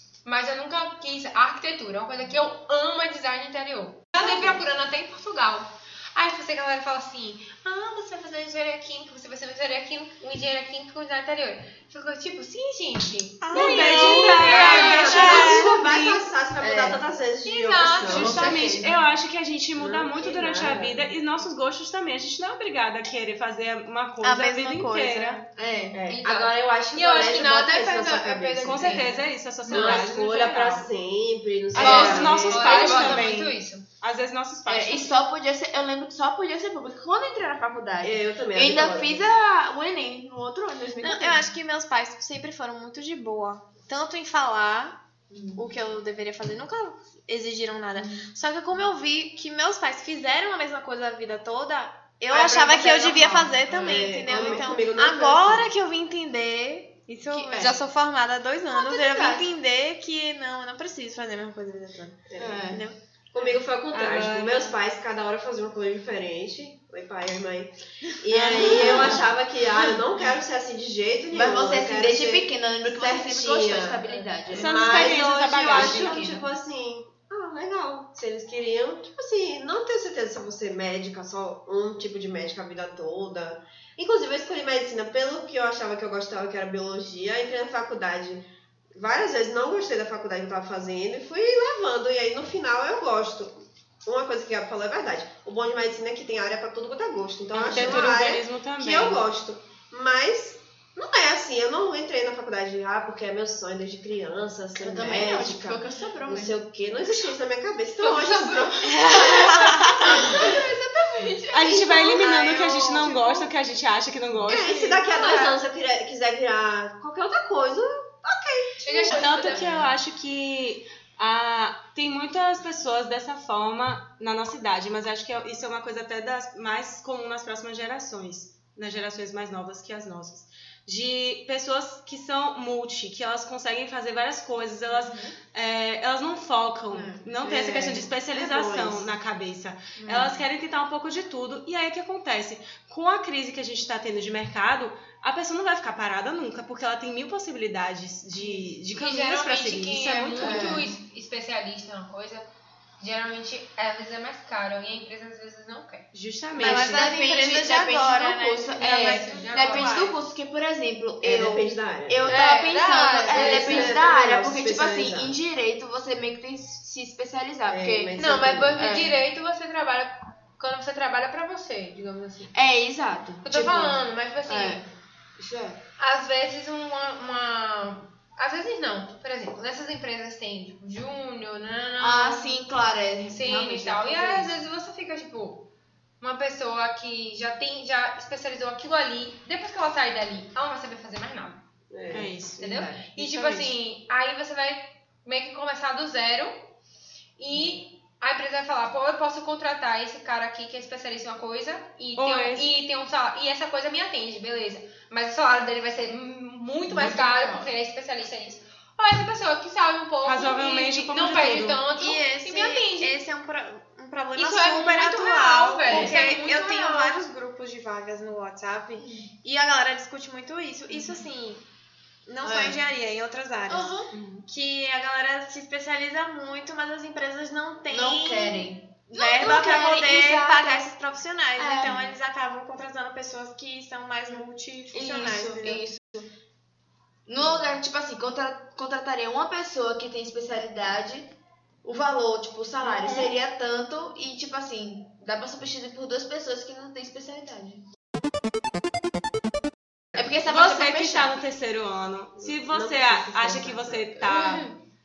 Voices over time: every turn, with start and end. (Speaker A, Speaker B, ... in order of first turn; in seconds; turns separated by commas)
Speaker A: 0.2-15.4, Speaker B: 13.5-15.8, Speaker C: 13.5-16.2, Speaker D: 14.0-18.5, Speaker E: 16.6-17.0, Speaker A: 17.4-18.6, Speaker C: 18.1-25.4, Speaker E: 18.1-19.0, Speaker D: 19.8-21.1, Speaker B: 24.2-25.5, Speaker E: 25.6-26.0, Speaker D: 25.9-29.1, Speaker A: 26.1-30.1, Speaker C: 28.6-30.9, Speaker D: 29.6-33.3, Speaker C: 31.7-35.1, Speaker A: 31.8-33.9, Speaker E: 31.9-32.4, Speaker E: 34.6-41.5, Speaker D: 38.0-39.3, Speaker B: 41.0-45.0, Speaker E: 45.3-45.6, Speaker B: 45.5-63.0, Speaker E: 48.0-48.2, Speaker E: 52.3-54.6, Speaker D: 52.3-55.7, Speaker E: 57.2-57.8, Speaker E: 58.7-59.5, Speaker D: 62.3-62.6, Speaker E: 62.4-62.8, Speaker D: 63.3-109.3, Speaker C: 63.9-64.7, Speaker C: 68.3-70.1, Speaker E: 68.5-69.2, Speaker E: 71.3-75.2, Speaker C: 74.5-76.4, Speaker E: 75.7-76.2, Speaker C: 97.5-99.2, Speaker E: 104.8-106.6, Speaker A: 108.0-111.5, Speaker E: 109.1-111.8, Speaker C: 109.3-110.1, Speaker D: 110.1-110.6, Speaker C: 111.5-114.8, Speaker D: 111.6-113.5, Speaker D: 114.4-119.8, Speaker E: 114.7-115.5, Speaker A: 118.8-119.7, Speaker C: 119.1-150.9, Speaker E: 135.0-135.3, Speaker E: 136.9-137.3, Speaker D: 137.4-139.1, Speaker E: 140.0-140.4, Speaker A: 148.4-152.5, Speaker E: 150.4-150.9, Speaker A: 153.0-156.1, Speaker C: 156.1-157.0, Speaker E: 156.6-168.2, Speaker B: 156.6-160.1, Speaker A: 158.7-160.1, Speaker D: 161.2-162.4, Speaker A: 162.3-164.0, Speaker D: 163.3-165.4, Speaker D: 167.7-168.9, Speaker A: 168.2-172.5, Speaker E: 168.7-169.1, Speaker E: 172.5-174.8, Speaker A: 173.4-174.8, Speaker E: 175.4-175.8, Speaker A: 176.0-182.7, Speaker E: 182.0-184.6, Speaker A: 183.3-185.7, Speaker A: 186.2-191.6, Speaker D: 191.9-192.3, Speaker C: 192.1-193.7, Speaker A: 192.6-196.6, Speaker E: 192.6-193.0, Speaker A: 197.4-213.2, Speaker C: 202.2-202.7, Speaker E: 206.9-207.7, Speaker C: 210.2-211.8, Speaker B: 211.9-221.6, Speaker A: 214.3-217.2, Speaker E: 215.9-216.2, Speaker E: 219.0-219.3, Speaker B: 222.3-223.9, Speaker E: 222.4-222.8, Speaker E: 223.7-224.1, Speaker C: 224.1-224.4, Speaker B: 224.5-235.8, Speaker E: 227.9-230.9, Speaker E: 231.6-232.1, Speaker E: 234.3-236.3, Speaker E: 237.3-247.8, Speaker C: 243.0-243.3, Speaker E: 250.1-251.3, Speaker C: 250.5-254.7, Speaker D: 252.4-254.3, Speaker A: 254.2-254.8